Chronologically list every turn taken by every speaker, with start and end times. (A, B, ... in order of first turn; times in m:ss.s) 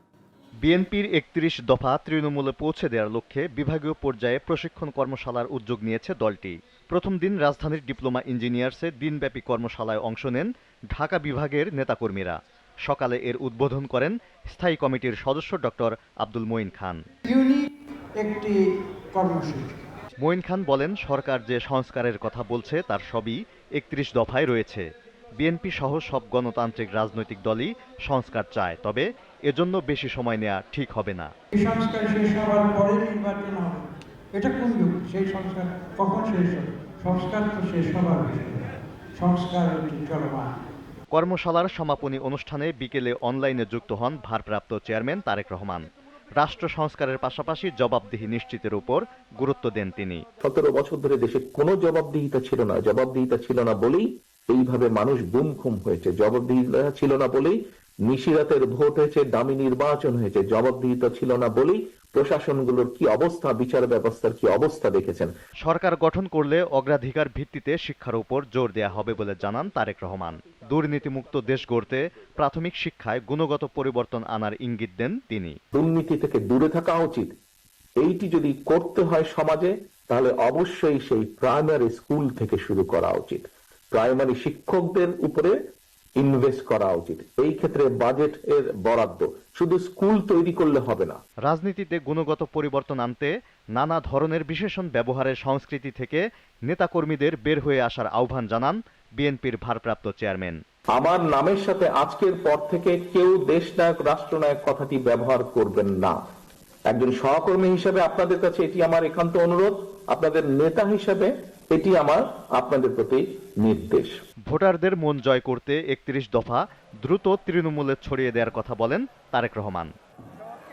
0:00.6-0:17.0 A
0:17.2-0:19.8 B
0:20.2-0:31.3 A
0:31.5-0:40.5 B
0:41.1-0:45.8 A
0:46.4-0:50.2 A
0:50.4-1:05.3 C
1:05.6-1:15.6 A
1:15.7-1:17.3 C
1:18.0-1:25.6 C
1:26.2-1:31.2 C
1:31.4-1:40.6 A
1:40.9-1:46.2 C
1:46.9-1:54.2 C
1:54.5-1:59.9 A